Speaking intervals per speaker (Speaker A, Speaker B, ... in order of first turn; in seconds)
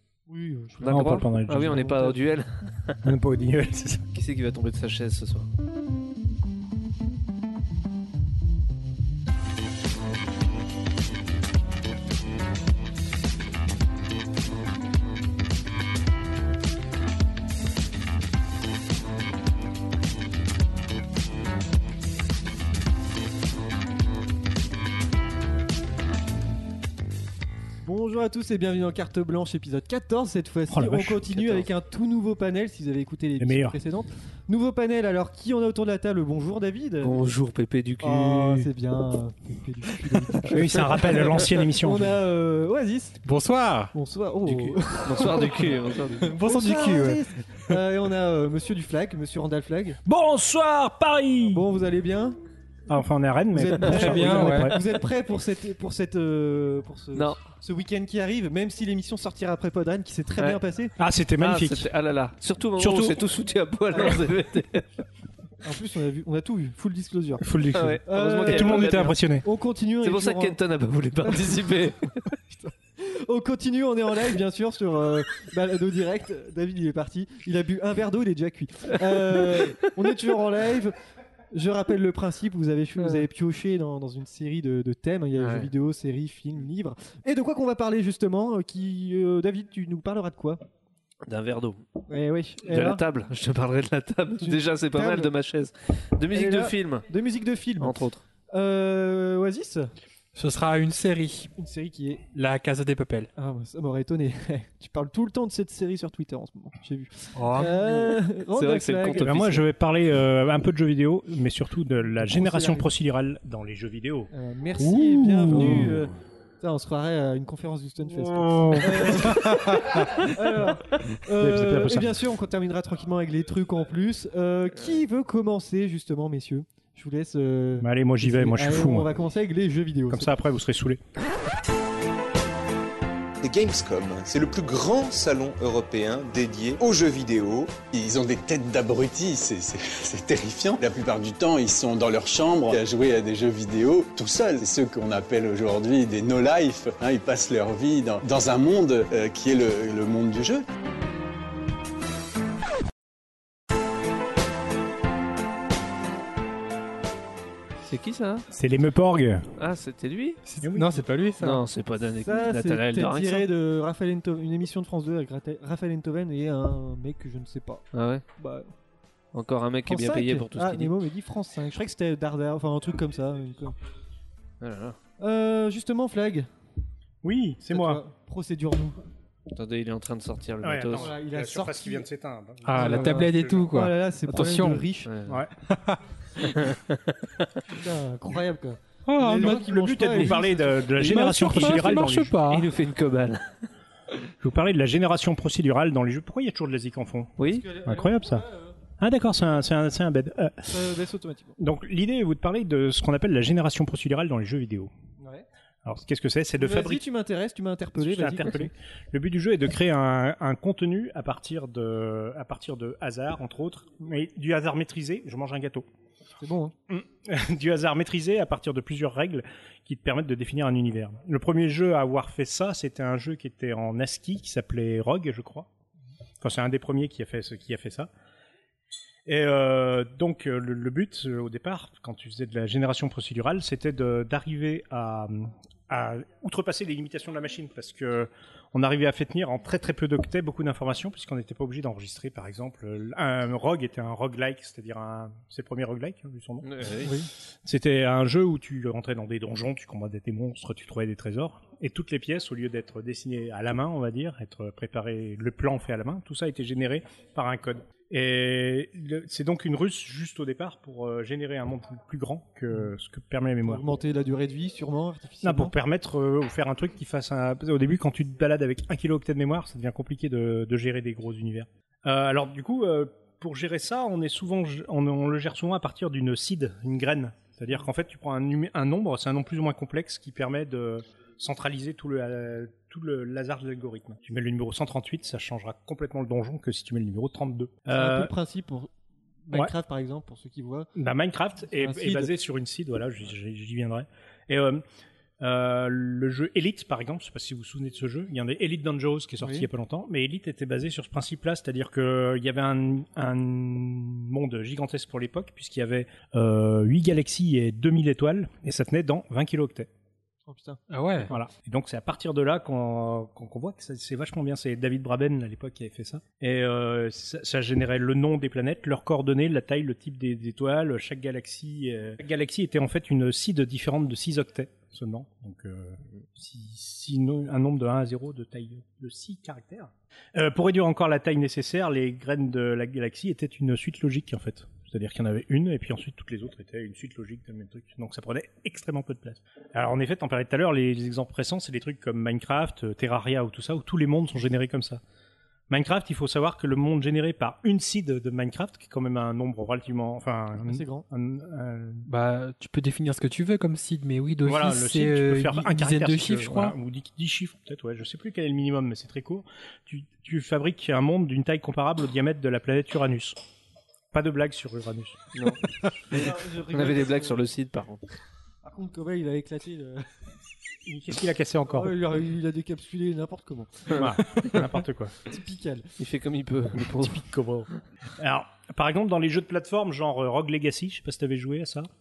Speaker A: 0.3-2.2, 27.8-37.3, 38.0-43.2, 43.9-50.0, 51.5-52.4, 53.5-61.0, 63.9-64.3, 65.6-67.5, 68.0-70.6, 71.2-71.9, 72.5-81.0, 81.5-90.6, 92.1-93.0, 94.4-95.3, 96.3-99.9, 101.6-102.3, 103.4-109.4, 112.2-112.9, 114.3-130.3, 162.2-167.8, 168.4-168.7, 169.9-173.8, 175.2-176.5, 177.7-179.0, 180.9-182.1, 182.7-185.1, 187.7-190.8, 197.4-198.8, 200.7-201.6, 205.2-205.5, 206.6-208.7, 216.4-216.8, 247.0-247.3, 263.6-265.8, 287.9-288.9, 289.4-290.9, 291.8-292.3, 299.4-299.7, 310.5-311.4, 350.6-351.1, 366.1-367.4, 368.6-370.1, 371.7-374.1, 375.2-375.9
Speaker B: 0.8-3.1, 4.1-5.5, 31.4-31.7, 37.0-38.7, 44.5-46.3, 57.1-57.4, 61.4-64.9, 67.7-69.2, 70.0-72.3, 79.1-79.8, 83.0-83.2, 85.4-85.7, 91.3-91.8, 92.6-97.0, 97.8-98.2, 107.8-109.6, 157.9-158.5, 159.6-160.4, 161.4-163.5, 167.9-168.2, 169.3-170.9, 174.6-175.0, 179.5-181.1, 185.1-185.4, 186.4-187.5, 192.4-193.6, 197.4-197.7, 246.6-247.1, 365.3-368.0, 373.9-374.6, 376.0-377.3
Speaker C: 0.9-1.9, 3.0-4.0, 30.7-31.4, 33.4-33.8, 40.5-42.2, 50.0-51.6, 52.9-54.8, 61.0-61.9, 62.8-63.2, 67.4-69.5, 109.2-116.1, 118.1-120.0, 121.3-122.2, 127.8-129.2, 130.1-131.0, 158.5-159.5, 160.6-161.1, 177.2-178.0, 180.6-183.7, 185.3-185.6, 189.3-192.4, 194.4-198.4, 199.0-200.8, 201.6-204.9, 205.8-207.0, 208.0-215.9, 216.9-225.7, 226.4-228.1, 229.3-246.9, 247.6-263.9, 265.4-288.3, 291.0-294.8, 295.4-309.9, 311.3-345.0, 345.7-352.1, 354.4-363.4, 364.1-365.2, 370.9-372.0, 374.0-375.2, 376.8-381.9
Speaker D: 43.2-43.9, 46.2-47.2, 53.9-54.8, 100.3-101.5, 102.3-103.3, 107.4-107.8, 115.5-115.9, 160.5-161.6, 182.7-184.8, 185.7-186.0, 189.1-190.4, 190.9-192.7, 310.9-311.3, 352.1-356.8
Speaker E: 133.4-137.8
Speaker F: 137.9-150.7